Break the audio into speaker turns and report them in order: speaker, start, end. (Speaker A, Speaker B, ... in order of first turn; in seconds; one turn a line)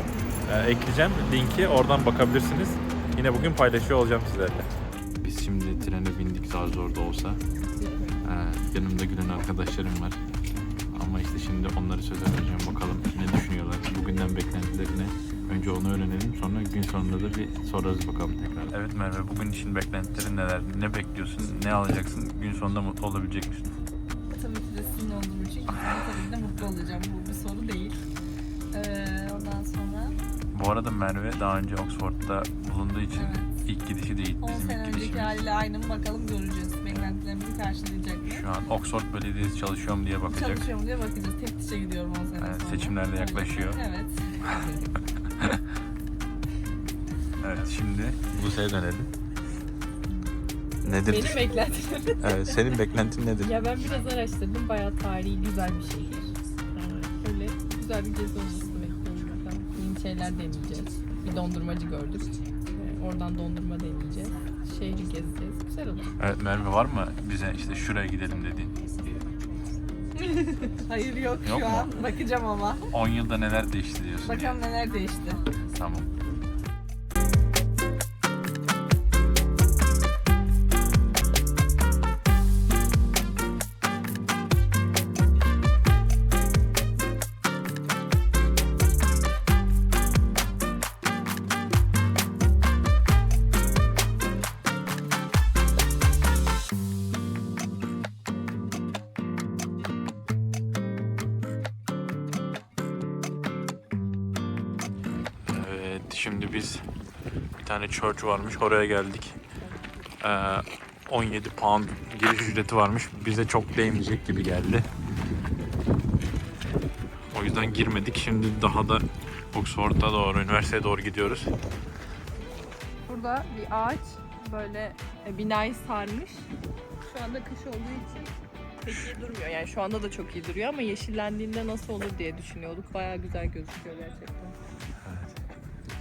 Speaker A: 0.5-4.7
Speaker A: 5.2-7.4
Speaker B: 7.8-8.2
Speaker A: 8.2-10.2
Speaker A: 10.9-23.7
Speaker C: 24.3-28.0
Speaker C: 28.7-30.2
Speaker A: 30.5-35.4
Speaker C: 33.2-33.5
Speaker C: 34.4-38.5
Speaker A: 38.2-40.6
Speaker C: 40.3-44.9
Speaker A: 42.4-43.8
Speaker A: 47.4-49.1
Speaker A: 50.8-51.5
Speaker B: 51.1-52.8
Speaker A: 52.2-53.5
Speaker B: 53.4-66.2
Speaker A: 66.2-68.9
Speaker C: 70.2-72.9
Speaker A: 71.4-71.9
Speaker A: 72.9-74.6
Speaker C: 74.2-75.5
Speaker A: 75.6-76.1
Speaker A: 105.5-106.9
Speaker A: 107.6-109.4
Speaker B: 109.7-110.0
Speaker A: 110.2-114.9
Speaker A: 117.3-121.5
Speaker B: 123.1-126.5
Speaker C: 127.0-128.3
Speaker B: 128.8-134.6
Speaker A: 135.0-135.4